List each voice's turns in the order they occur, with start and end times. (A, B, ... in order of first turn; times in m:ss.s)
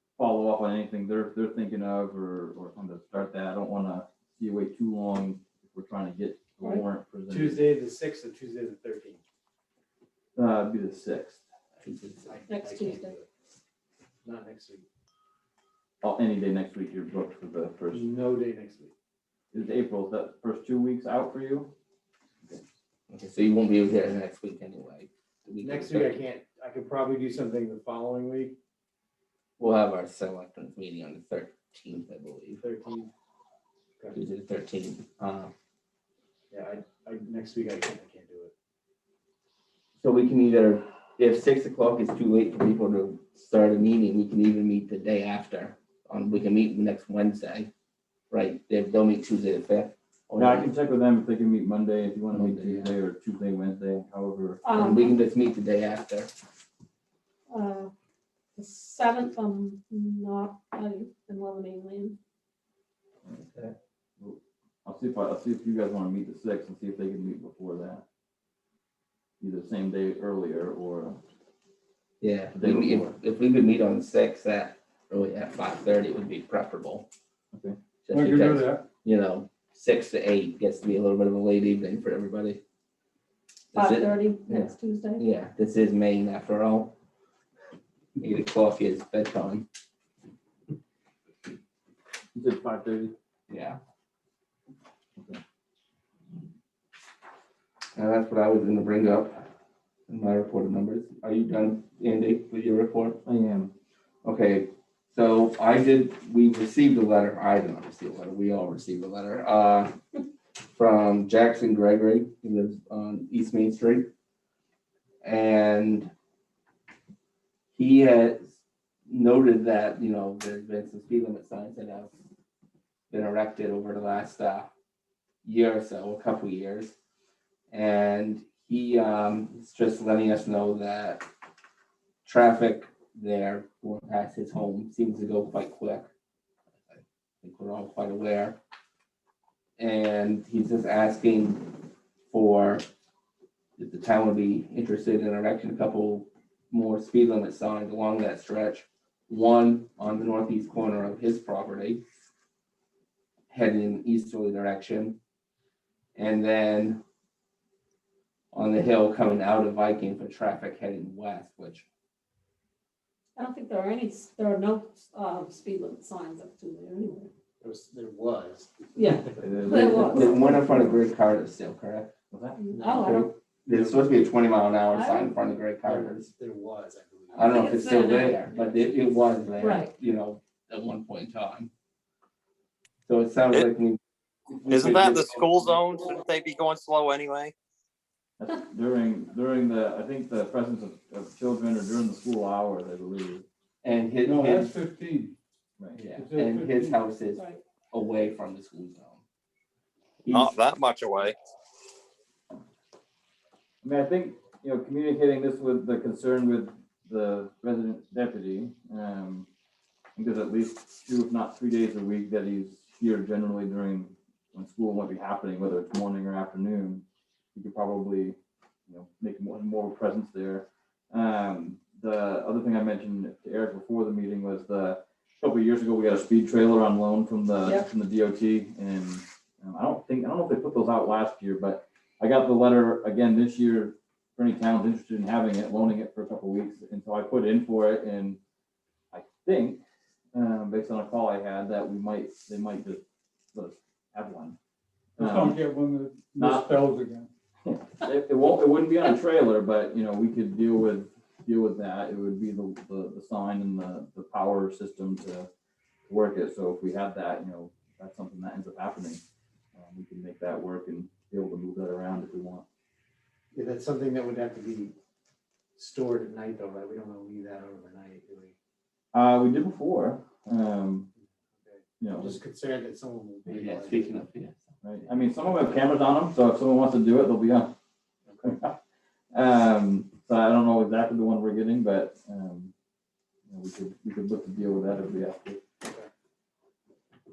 0:00.2-0:07.7 A
0:07.3-0:09.2 B
0:10.4-0:11.4 A
0:11.8-0:12.3 C
0:12.2-0:13.3 B
0:12.5-0:13.2 D
0:14.2-0:14.9 B
0:16.0-0:18.1 A
0:17.9-0:18.9 B
0:19.5-0:21.7 A
0:23.1-0:26.2 C
0:25.6-0:28.6 B
0:29.6-0:32.6 C
0:32.6-0:33.1 B
0:34.1-0:35.5 C
0:36.5-0:38.5 B
0:40.0-0:47.7 C
0:48.3-0:50.7 C
0:50.4-0:54.6 A
0:52.3-0:53.0 C
0:54.7-0:55.2 E
0:54.7-0:56.3 C
0:57.5-0:57.9 E
0:58.6-1:02.2 E
1:03.5-1:03.7 C
1:04.2-1:08.0 A
1:09.4-1:11.2 A
1:12.2-1:17.1 C
1:12.5-1:13.1 A
1:18.0-1:22.6 C
1:18.1-1:18.8 D
1:23.7-1:26.9 C
1:23.8-1:25.2 E
1:28.2-1:29.7 C
1:32.4-1:33.1 A
1:33.5-1:33.8 C
1:38.0-1:39.5 C
1:40.1-1:43.2 C
1:43.2-1:43.7 A
1:44.2-1:50.0 C
1:50.8-1:54.1 C
1:55.2-1:56.1 C
1:57.7-1:58.6 C
1:59.1-2:02.1 C
2:03.1-2:04.7 C
2:05.4-2:07.0 C
2:07.7-2:11.3 C
2:12.2-2:16.1 C
2:16.8-2:18.6 C
2:19.8-2:21.8 C
2:22.3-2:22.8 C
2:23.8-2:32.0 C
2:33.5-2:35.2 C
2:36.2-2:37.0 C
2:38.5-2:41.9 C
2:43.4-2:47.3 E
2:47.6-2:50.4 B
2:49.0-2:50.2 D
2:49.4-2:51.0 A
2:49.8-2:50.2 E
2:49.9-2:52.1 C
2:52.3-2:52.6 A
2:52.7-2:54.1 B
2:52.7-2:53.3 D
2:52.9-2:56.3 C
2:55.0-2:55.2 E
2:55.8-2:57.9 B
2:57.3-3:01.7 C
2:57.9-2:58.3 E
3:03.1-3:04.0 C
3:04.5-3:05.8 C
3:04.7-3:05.9 F
3:07.1-3:07.5 F
3:08.4-3:13.4 A
3:13.8-3:14.8 C
3:14.2-3:15.4 D
3:16.0-3:19.2 C
3:16.2-3:17.0 D
3:20.2-3:20.6 C
3:20.4-3:21.2 F
3:23.8-3:29.5 A
3:30.2-3:58.4 A
3:59.1-3:59.8 A
4:00.3-4:03.0 A
4:03.5-4:04.6 A
4:05.2-4:05.6 A
4:05.2-4:07.3 D
4:06.4-4:06.7 A
4:07.6-4:15.5 A
4:16.1-4:19.2 A
4:19.8-4:22.6 A
4:23.5-4:24.9 B
4:25.8-4:28.6 B
4:29.1-4:31.1 A
4:31.6-4:34.2 B
4:32.0-4:32.4 A
4:33.5-4:34.7 C
4:34.8-4:37.7 A
4:38.3-4:38.6 B
4:38.4-4:38.8 A
4:39.3-4:42.7 A
4:43.5-4:45.6 A